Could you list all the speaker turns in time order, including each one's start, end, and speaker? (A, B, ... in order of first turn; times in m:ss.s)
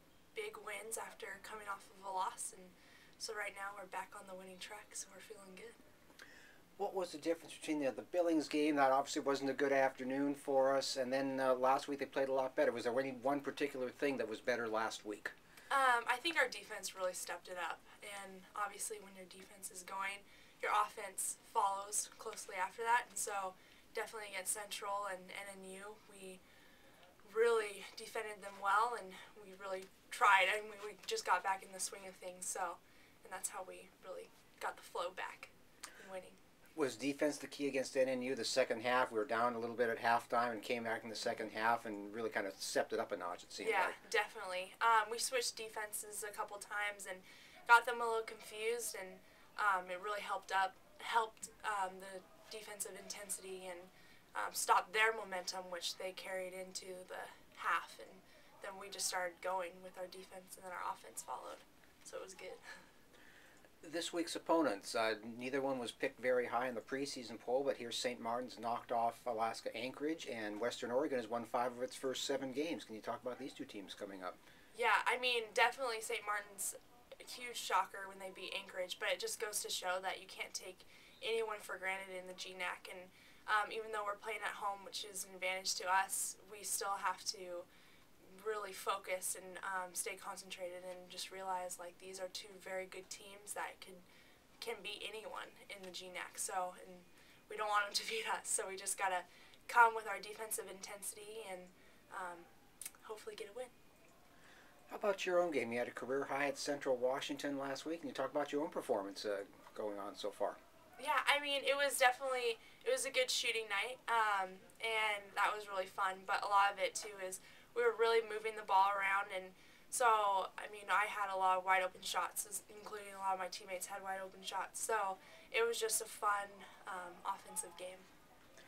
0:00.3-0:05.8 A
0:06.8-0:15.3 B
0:15.7-0:26.4 A
0:27.2-0:36.4 A
0:36.8-0:44.0 B
0:43.6-1:02.6 A
1:03.8-1:14.4 B
1:14.7-1:27.7 A
1:28.2-1:34.0 A
1:34.6-1:42.5 A
1:43.0-1:43.7 A
1:44.9-1:50.6 B
1:51.0-2:08.1 A